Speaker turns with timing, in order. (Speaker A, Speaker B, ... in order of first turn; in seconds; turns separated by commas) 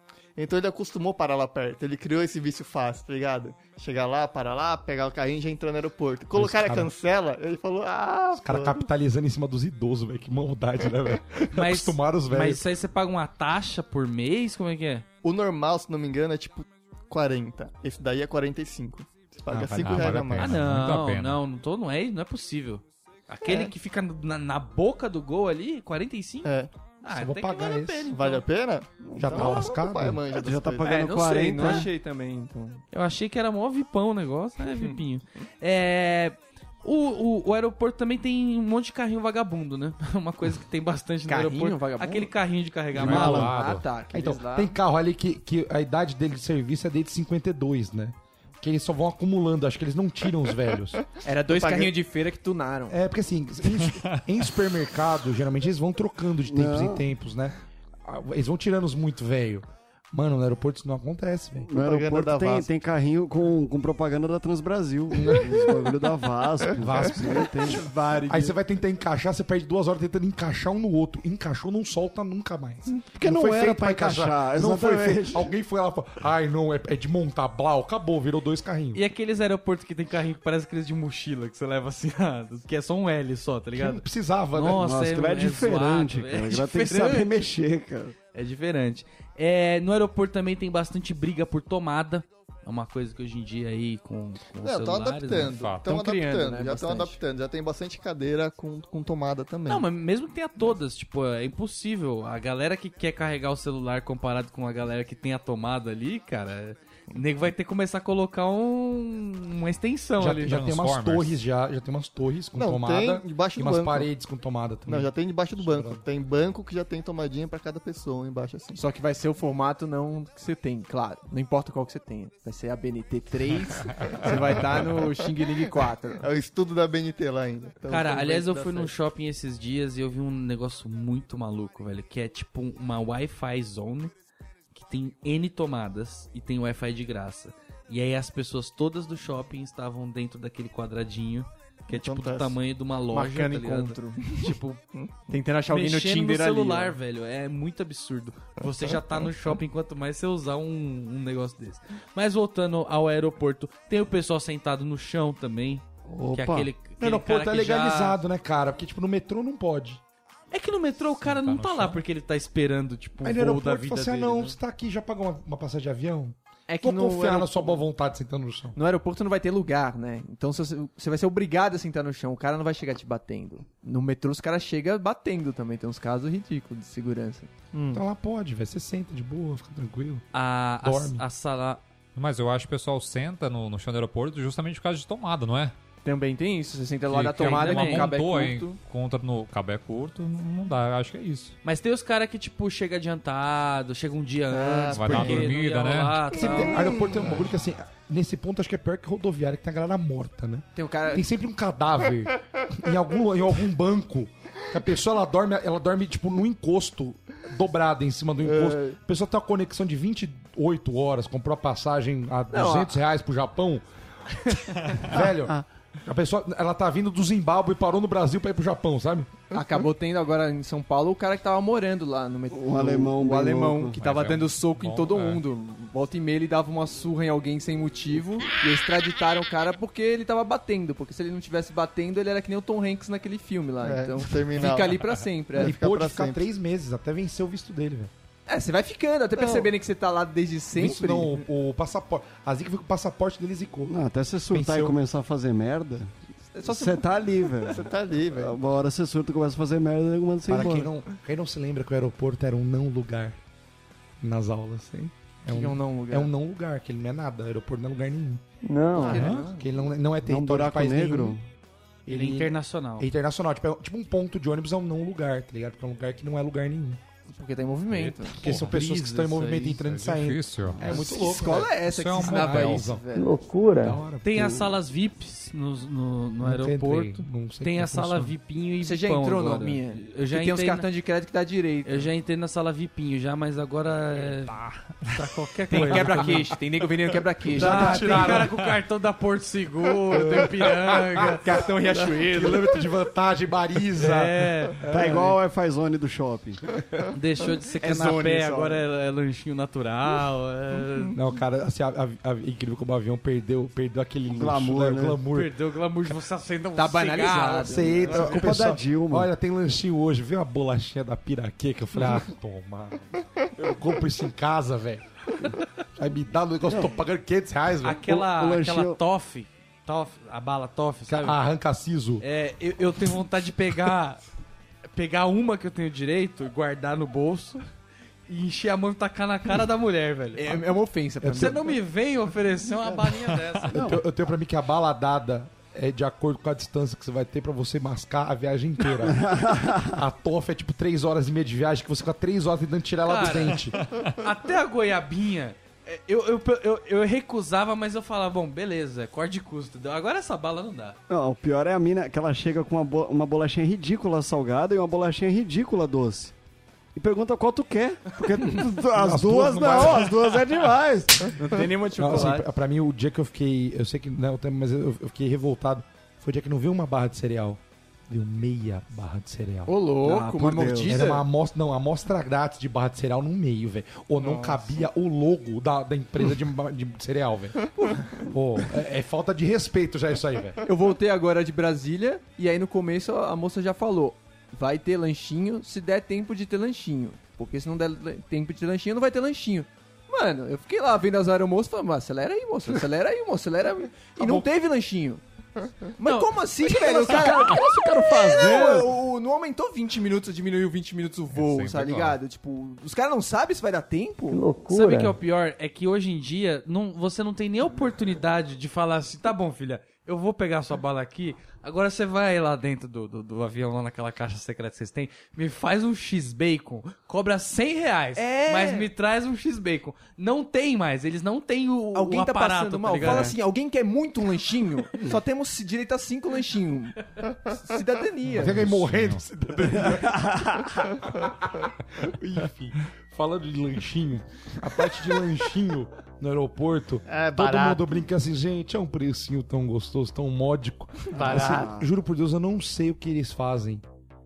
Speaker A: 0.4-8.8, Speaker B: 6.3-6.9, Speaker B: 8.4-12.6, Speaker C: 11.5-15.1, Speaker A: 15.2-20.6, Speaker B: 19.5-20.6, Speaker D: 19.8-21.4, Speaker C: 20.4-28.4, Speaker A: 26.4-26.7, Speaker B: 27.1-28.1, Speaker A: 28.1-31.0, Speaker E: 29.1-29.7, Speaker B: 29.2-30.2, Speaker E: 30.3-31.9, Speaker F: 30.8-32.8, Speaker C: 32.9-43.5, Speaker F: 41.3-42.3, Speaker D: 43.0-43.8, Speaker F: 43.0-44.8, Speaker B: 43.0-51.0, Speaker F: 51.2-53.0, Speaker A: 51.5-51.9, Speaker B: 52.9-61.7, Speaker E: 56.5-57.0, Speaker E: 61.7-67.9, Speaker A: 61.8-62.7, Speaker B: 65.2-65.6, Speaker B: 66.8-67.7, Speaker F: 67.7-68.6, Speaker B: 68.3-79.0, Speaker E: 73.1-75.5, Speaker C: 78.9-84.0, Speaker B: 83.8-84.9, Speaker C: 84.5-87.4, Speaker E: 84.7-88.2, Speaker C: 88.3-95.5, Speaker A: 94.6-99.9, Speaker D: 95.5-95.9, Speaker F: 95.8-97.2, Speaker C: 99.7-110.6, Speaker B: 110.2-116.0, Speaker D: 110.5-111.4, Speaker A: 112.6-114.1, Speaker A: 114.9-118.8, Speaker F: 118.7-126.2, Speaker A: 126.2-128.9, Speaker C: 127.9-134.1, Speaker C: 134.7-144.8, Speaker A: 141.9-142.6, Speaker F: 143.1-144.4, Speaker F: 145.3-147.0, Speaker C: 145.7-158.2, Speaker E: 156.1-156.7, Speaker B: 157.0-160.0, Speaker C: 160.5-164.6, Speaker D: 161.2-162.0, Speaker B: 163.2-168.8, Speaker F: 166.7-167.9, Speaker F: 168.8-177.5, Speaker A: 177.7-178.0, Speaker B: 177.9-180.2, Speaker C: 180.3-181.8, Speaker B: 180.8-181.2, Speaker D: 182.2-185.7, Speaker F: 186.0-188.8, Speaker D: 187.1-191.6, Speaker C: 187.4-188.1, Speaker C: 191.6-197.0, Speaker A: 194.5-195.6, Speaker D: 194.9-196.4, Speaker B: 196.4-213.8, Speaker A: 196.4-197.3, Speaker F: 200.8-201.3, Speaker F: 212.5-213.0, Speaker B: 215.0-219.3, Speaker E: 215.1-215.6, Speaker F: 219.5-235.8, Speaker E: 222.5-224.0, Speaker D: 223.9-225.4, Speaker A: 233.8-235.0, Speaker A: 235.5-236.4, Speaker B: 235.6-238.1, Speaker F: 238.5-241.4, Speaker A: 239.4-239.7, Speaker B: 240.7-244.0, Speaker E: 243.9-246.1, Speaker B: 244.5-245.0, Speaker F: 246.6-247.1, Speaker E: 246.7-250.9, Speaker A: 247.7-248.6, Speaker B: 250.5-253.4, Speaker B: 254.2-258.4, Speaker F: 255.5-256.3, Speaker G: 258.6-259.3, Speaker F: 259.0-259.6, Speaker C: 259.0-259.6, Speaker D: 259.1-259.5, Speaker B: 259.3-261.4, Speaker E: 260.2-261.4, Speaker B: 262.1-267.0, Speaker C: 262.1-263.1, Speaker F: 267.3-268.6, Speaker D: 267.9-268.8, Speaker B: 268.4-273.1, Speaker C: 268.7-269.7, Speaker D: 269.7-272.9, Speaker F: 270.8-273.3, Speaker G: 273.1-274.0, Speaker B: 273.8-274.6, Speaker C: 274.2-280.9, Speaker E: 274.4-274.7, Speaker B: 276.4-278.4, Speaker F: 278.8-282.1, Speaker C: 281.9-286.5, Speaker F: 285.7-288.4, Speaker B: 285.8-286.4, Speaker B: 287.5-288.6, Speaker C: 287.5-291.4, Speaker B: 290.1-295.4, Speaker F: 291.0-292.8, Speaker C: 294.0-294.8, Speaker E: 294.9-296.6, Speaker C: 297.1-301.1, Speaker F: 297.8-298.8, Speaker B: 301.1-305.5, Speaker E: 304.3-305.2, Speaker C: 305.3-308.3, Speaker F: 306.8-308.5, Speaker B: 307.6-315.1, Speaker E: 308.1-309.3, Speaker B: 316.0-318.1, Speaker E: 316.7-316.9, Speaker C: 317.8-321.4, Speaker E: 318.0-319.0, Speaker B: 321.1-322.2, Speaker C: 322.2-324.2, Speaker C: 324.9-327.6, Speaker C: 328.3-330.6, Speaker F: 330.4-331.8, Speaker B: 331.2-331.6, Speaker C: 331.4-333.8, Speaker B: 333.7-343.8, Speaker E: 333.7-334.0, Speaker E: 339.0-340.0, Speaker C: 343.1-351.0, Speaker E: 351.1-356.3, Speaker E: 356.9-361.4, Speaker B: 358.9-360.4, Speaker F: 361.4-362.5, Speaker B: 362.0-369.7, Speaker F: 369.7-371.2, Speaker E: 370.0-371.1, Speaker B: 370.4-380.6, Speaker F: 380.7-395.2, Speaker B: 394.2-394.5, Speaker F: 396.0-404.4, Speaker C: 396.0-397.4, Speaker E: 397.0-398.9, Speaker D: 401.3-402.2, Speaker G: 404.3-405.2, Speaker C: 404.7-423.3, Speaker F: 418.2-418.9, Speaker F: 421.9-428.9, Speaker E: 423.0-423.4, Speaker B: 428.3-430.4, Speaker D: 428.4-429.2, Speaker E: 429.7-430.8, Speaker B: 431.0-443.8, Speaker A: 437.1-438.1, Speaker A: 441.1-441.8, Speaker E: 441.1-441.9